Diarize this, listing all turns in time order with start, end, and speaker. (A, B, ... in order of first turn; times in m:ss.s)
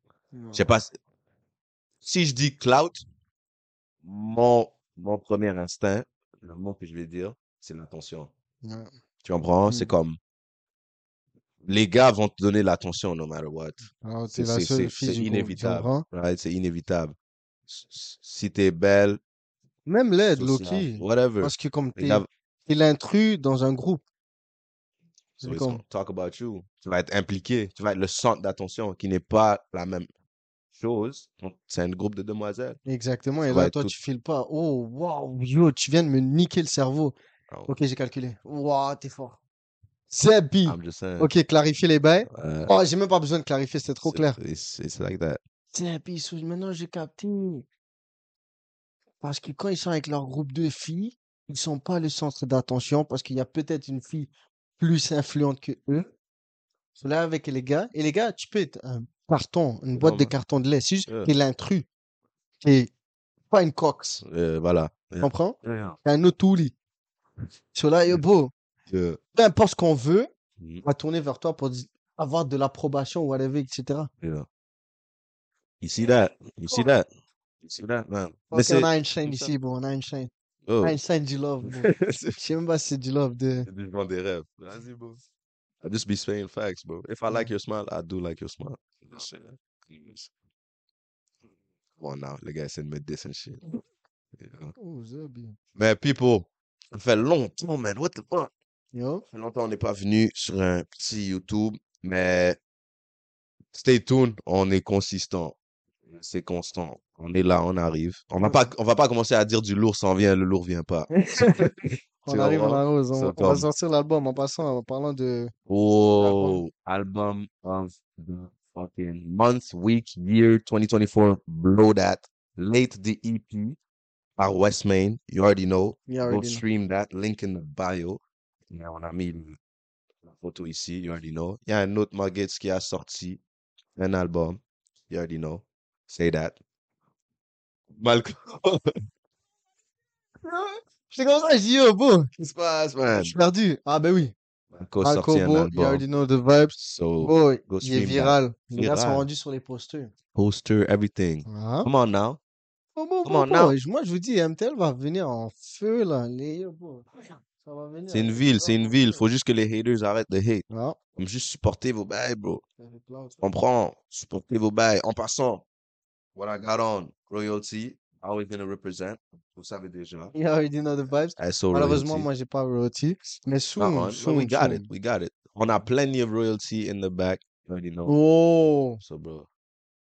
0:00.3-0:00.7 A
0:00.5-0:01.0 B
0:02.0-0:03.0 B
0:04.0-0:08.3 B
0:08.6-0:08.9 A
0:09.2-0:10.2 B
0:09.7-0:09.9 A
0:11.6-0:17.2 B
0:14.0-0:16.0 A
0:17.7-0:19.2 B
0:19.9-0:24.0 A
0:20.3-0:22.3 B
0:25.4-0:30.1 B
0:25.4-0:25.8 A
0:30.8-0:32.8 B
0:32.9-0:37.2 A
0:33.5-0:34.0 B
0:37.5-0:37.8 B
0:37.7-0:39.4 A
0:40.1-0:44.4 A
0:40.6-0:41.3 B
0:42.3-0:42.7 B
0:44.1-0:45.4 B
0:45.7-0:47.7 A
0:49.2-0:56.1 A
0:57.0-1:01.9 A
1:00.0-1:00.3 B
1:01.1-1:01.3 B
1:02.6-1:02.9 A
1:03.5-1:04.2 A
1:04.2-1:06.0 B
1:05.2-1:06.7 A
1:07.7-1:08.5 A
1:08.9-1:09.2 B
1:09.4-1:10.3 A
1:10.6-1:10.8 B
1:10.8-1:14.1 A
1:15.8-1:17.1 B
1:17.6-1:19.5 B
1:18.5-1:20.3 A
1:20.7-1:21.0 B
1:20.8-1:23.7 A
1:21.6-1:22.4 B
1:23.6-1:25.2 B
1:25.8-1:30.3 B
1:32.0-1:33.6 B
1:34.4-1:34.7 B
1:34.8-1:35.6 A
1:35.8-1:38.5 B
1:38.9-1:39.2 A
1:39.3-1:42.6 B
1:43.7-1:45.6 B
1:46.1-1:51.7 B
1:48.4-1:48.7 A
1:51.1-1:51.7 A
1:52.2-1:55.5 A
1:52.3-1:53.7 B
1:55.7-2:03.8 B
1:56.2-1:56.6 A
2:04.4-2:08.2 B
2:06.1-2:06.6 A
2:08.7-2:09.6 B
2:10.3-2:13.4 B
2:14.0-2:16.6 B
2:18.0-2:19.0 B
2:20.4-2:22.3 A
2:22.4-2:23.4 B
2:23.1-2:24.3 A
2:24.7-2:26.0 B
2:25.0-2:30.1 A
2:26.8-2:29.3 B
2:30.4-2:32.4 B
2:31.5-2:31.9 A
2:33.0-2:39.2 A
2:33.2-2:33.8 B
2:38.1-2:40.6 B
2:40.7-2:41.0 A
2:41.2-2:42.6 B
2:42.8-2:43.4 A
2:43.4-2:45.6 B
2:46.4-2:50.3 B
2:50.3-2:54.9 A
2:51.4-2:52.3 B
2:53.8-2:58.2 B
2:58.1-2:59.0 A
2:59.0-2:59.5 B